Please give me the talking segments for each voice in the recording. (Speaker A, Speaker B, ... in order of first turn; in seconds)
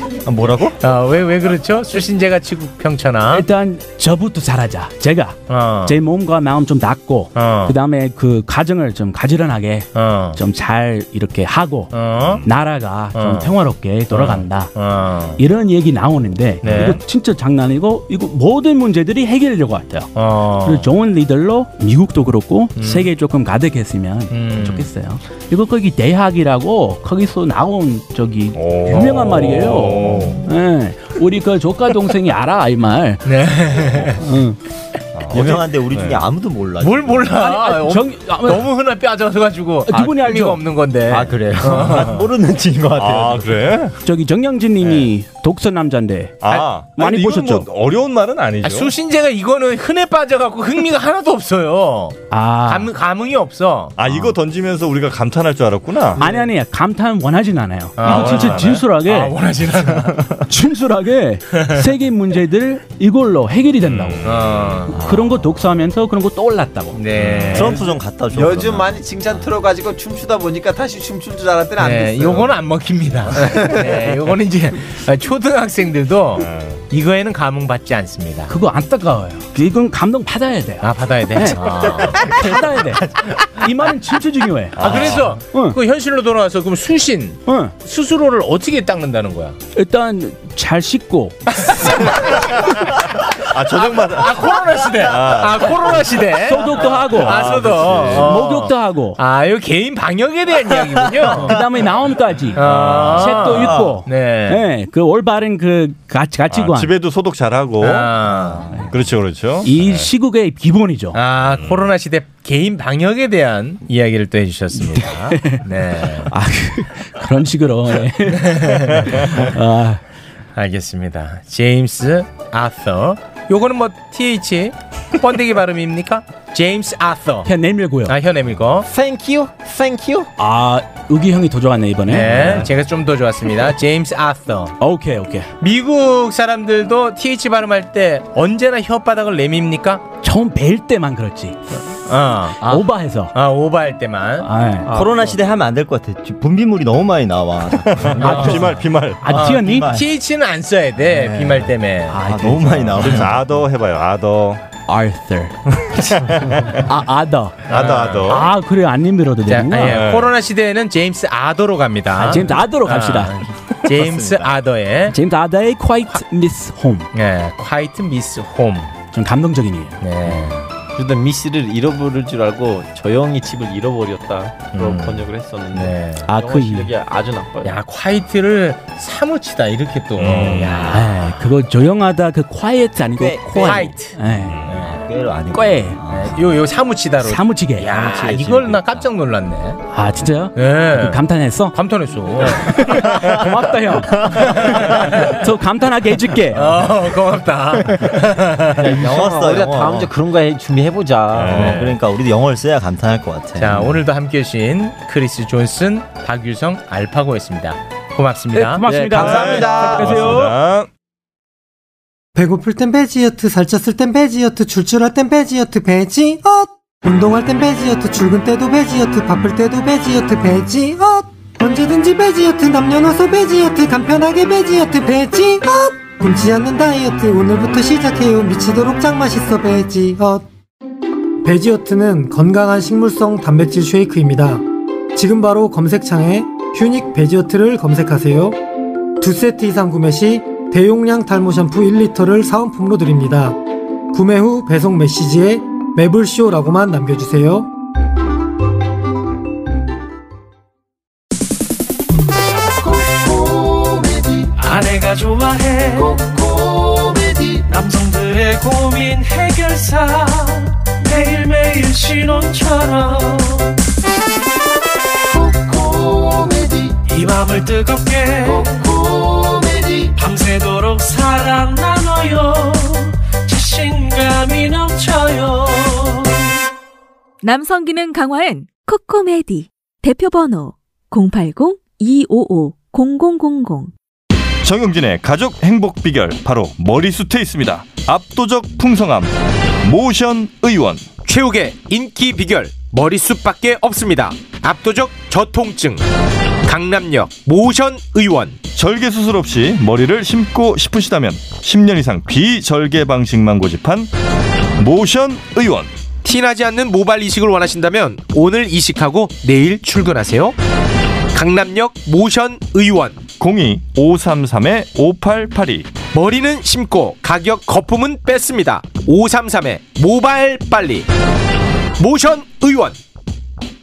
Speaker A: 0.3-0.6, 35.3-37.3, 41.1-43.5, 67.5-69.0, 144.9-148.7, 149.3-150.1, 152.1-153.4, 163.9-164.5, 183.2-183.9, 184.7-186.5, 187.9-189.1, 194.0-195.1, 198.8-200.1, 201.5-204.0
Speaker B: 0.8-3.4, 5.5-6.0, 7.3-7.8, 9.9-10.4, 11.9-12.4, 13.1-13.5, 14.1-15.4, 16.6-17.0, 20.1-20.9, 22.8-23.1, 24.3-24.9, 28.9-29.3, 33.2-34.2, 36.8-42.2, 48.6-53.9, 58.0-60.2, 61.5-61.8, 64.2-65.0, 66.9-67.8, 71.8-78.5, 80.8-82.3, 84.8-89.6, 91.6-92.6, 93.7-101.5, 102.5-104.6, 107.8-108.8, 111.1-116.3, 118.3-119.2, 120.5-127.5, 128.1-128.9, 132.1-134.7, 135.6-140.0, 142.1-144.5, 148.2-148.6, 149.3-152.2, 157.7-158.5, 159.5-165.1, 167.1-168.9, 170.0-170.7, 174.7-176.2, 177.6-181.4, 183.6-184.1, 184.7-185.0, 186.1-189.8, 190.6-192.9, 194.4-195.3, 196.5-198.8, 201.5-202.0, 203.6-208.9, 291.2-296.1, 296.6-298.6, 306.2-310.6, 311.3-313.2, 316.1-321.1, 322.0-323.0
Speaker C: 3.3-11.9, 12.4-14.7, 15.4-20.1, 20.6-33.2, 34.2-34.6, 37.4-38.6, 39.9-40.6, 44.0-47.7, 52.3-52.9, 56.2-59.3, 60.5-64.3, 64.9-67.0, 78.5-85.8, 87.5-87.7, 89.7-91.5, 96.4-99.2, 101.4-106.9, 109.6-111.2, 114.7-115.7, 116.2-120.0, 127.5-128.1, 130.4-132.6, 134.8-135.5, 140.2-141.6, 142.6-143.3, 144.4-144.9, 148.2-149.9, 152.1-153.1, 154.9-155.6, 156.7-157.6, 158.3-160.0, 162.2-163.3, 165.1-167.1, 169.1-170.0, 176.2-176.9, 181.0-184.6, 185.5-186.0, 187.2-187.9, 189.9-191.7, 192.5-196.7, 208.5-210.5
Speaker D: 28.5-30.4, 35.1-36.2, 43.0-43.9, 46.4-48.9, 54.0-56.2, 58.2-58.6, 64.0-64.8, 67.2-67.6, 76.4-76.8, 84.8-85.4, 92.3-92.7, 93.5-96.0, 97.1-98.4, 102.6-103.3, 106.5-108.2, 108.9-110.1, 111.5-111.8, 147.9-149.4, 152.9-154.6, 156.0-156.8, 157.7-158.5, 159.8-160.3, 180.2-181.0, 201.3-201.8, 209.2-210.9, 284.6-291.1, 298.7-304.1, 304.8-305.9, 313.4-315.9
Speaker E: 67.5-72.5, 73.4-74.0, 128.9-130.3, 144.9-145.3, 170.9-177.7, 198.8-201.7, 208.8-210.3
Speaker F: 212.3-230.4, 231.4-238.6, 239.2-243.6, 244.1-247.7
Speaker G: 252.8-263.8, 265.3-276.4
Speaker H: 277.4-283.9